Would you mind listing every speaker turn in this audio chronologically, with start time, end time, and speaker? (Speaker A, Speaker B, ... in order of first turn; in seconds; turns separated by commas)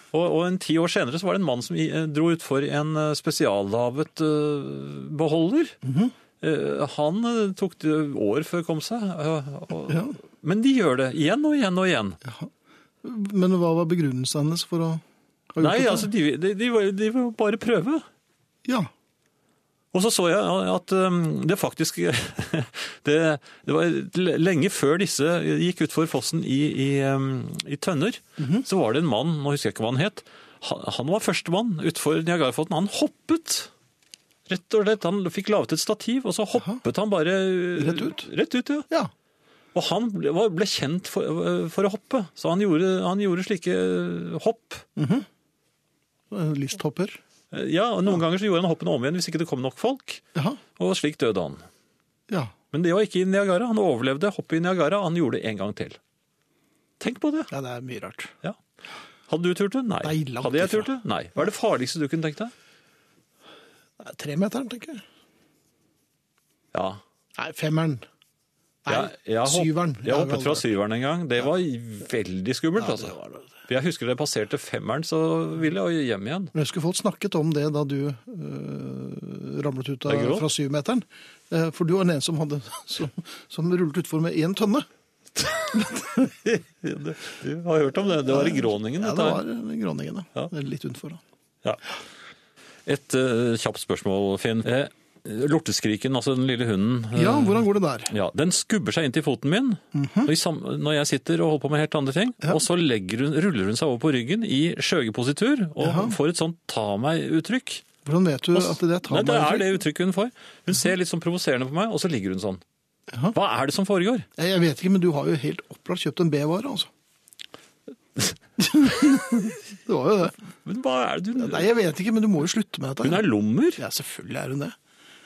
Speaker A: 0.1-5.8, Speaker B: 5.8-6.1, Speaker A: 6.4-12.2, Speaker B: 9.9-10.2, Speaker B: 12.2-12.5, Speaker B: 13.0-16.1, Speaker A: 15.6-18.0, Speaker B: 18.6-18.9, Speaker A: 19.9-33.7, Speaker B: 28.4-28.7, Speaker A: 34.5-38.9, Speaker B: 37.8-38.3, Speaker A: 39.7-44.9, Speaker B: 45.0-45.3, Speaker B: 46.3-47.2, Speaker A: 47.5-50.2, Speaker B: 50.4-50.6, Speaker A: 50.8-51.6, Speaker B: 52.3-52.5, Speaker A: 52.7-56.0, Speaker A: 57.0-57.5, Speaker B: 57.5-58.3, Speaker A: 59.3-62.5, Speaker B: 60.0-60.9, Speaker B: 64.0-65.0, Speaker A: 66.7-67.0, Speaker B: 67.4-68.0, Speaker B: 68.8-70.6, Speaker A: 68.9-73.2, Speaker B: 72.8-73.5, Speaker A: 73.7-76.5, Speaker B: 76.5-84.9, Speaker A: 80.1-80.5, Speaker A: 85.4-89.4, Speaker B: 85.8-86.2, Speaker B: 88.3-91.2, Speaker A: 92.9-107.8, Speaker B: 97.1-98.1, Speaker B: 99.9-100.3, Speaker B: 105.8-106.2, Speaker B: 108.0-109.8, Speaker A: 108.5-112.6, Speaker A: 113.3-114.3, Speaker B: 114.4-116.9, Speaker B: 118.6-120.4, Speaker A: 120.7-121.7, Speaker B: 121.4-123.2, Speaker A: 123.0-123.8, Speaker B: 123.8-124.8